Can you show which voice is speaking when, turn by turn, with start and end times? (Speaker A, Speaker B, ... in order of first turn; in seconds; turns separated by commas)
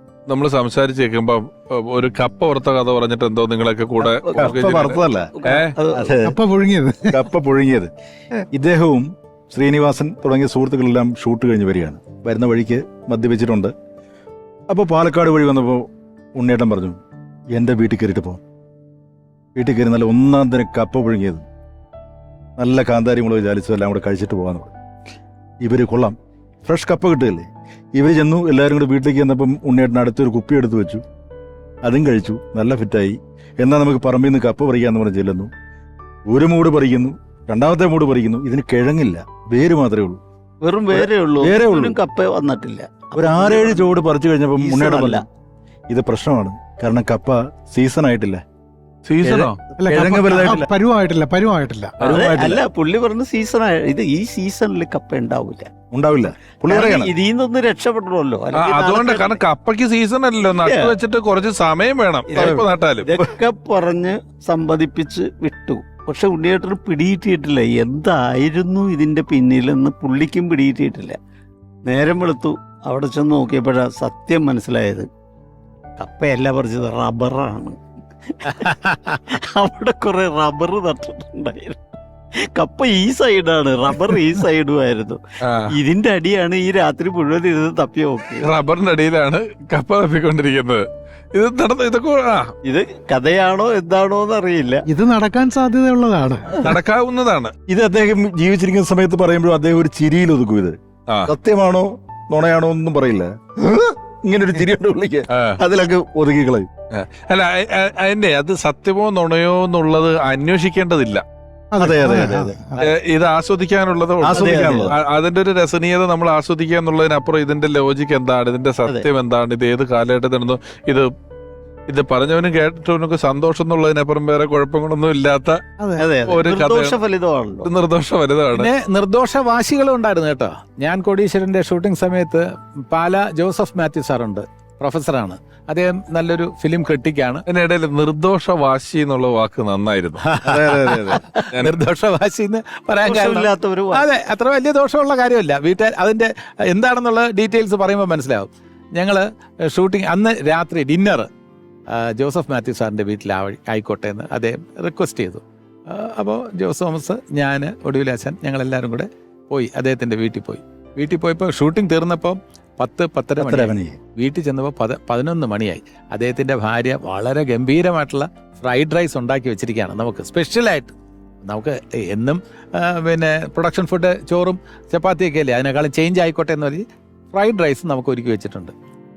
Speaker A: 0.3-5.8, Speaker B: 4.0-6.2, Speaker C: 4.3-5.3, Speaker C: 5.9-6.4, Speaker D: 6.2-7.2, Speaker C: 7.1-7.9, Speaker C: 8.5-13.7, Speaker C: 14.7-15.8, Speaker C: 16.4-17.0, Speaker C: 17.6-18.4, Speaker C: 19.6-21.4, Speaker C: 22.6-24.7, Speaker C: 25.6-31.0, Speaker C: 31.8-35.5, Speaker C: 36.3-40.2, Speaker B: 40.6-43.9, Speaker C: 40.9-42.0, Speaker C: 43.1-45.2, Speaker B: 44.6-45.2, Speaker C: 45.9-48.4, Speaker A: 49.0-49.6, Speaker C: 49.2-50.7, Speaker D: 49.8-52.6, Speaker A: 52.0-52.3, Speaker B: 52.0-55.7, Speaker C: 55.9-57.1, Speaker B: 56.7-59.4, Speaker A: 58.5-63.1, Speaker B: 60.5-61.0, Speaker B: 62.3-71.2, Speaker C: 62.4-62.6, Speaker B: 71.9-75.1, Speaker B: 76.0-78.7, Speaker E: 78.6-79.2, Speaker B: 79.3-81.8, Speaker B: 82.4-85.2, Speaker B: 85.7-88.5, Speaker A: 88.4-92.5, Speaker B: 92.6-94.8, Speaker D: 94.9-96.7, Speaker A: 96.5-97.5, Speaker C: 97.7-106.7, Speaker A: 105.3-105.6, Speaker A: 106.9-111.2, Speaker D: 111.7-112.9, Speaker C: 111.8-112.6, Speaker A: 112.8-121.1, Speaker C: 114.2-115.0, Speaker A: 121.9-125.6, Speaker D: 125.8-126.0, Speaker B: 126.0-127.7, Speaker A: 126.2-127.0, Speaker A: 127.6-128.7, Speaker E: 128.5-137.4, Speaker A: 137.5-140.2, Speaker E: 140.2-151.3, Speaker C: 140.4-141.2, Speaker B: 143.0-144.0, Speaker E: 151.9-178.7, Speaker C: 163.4-164.0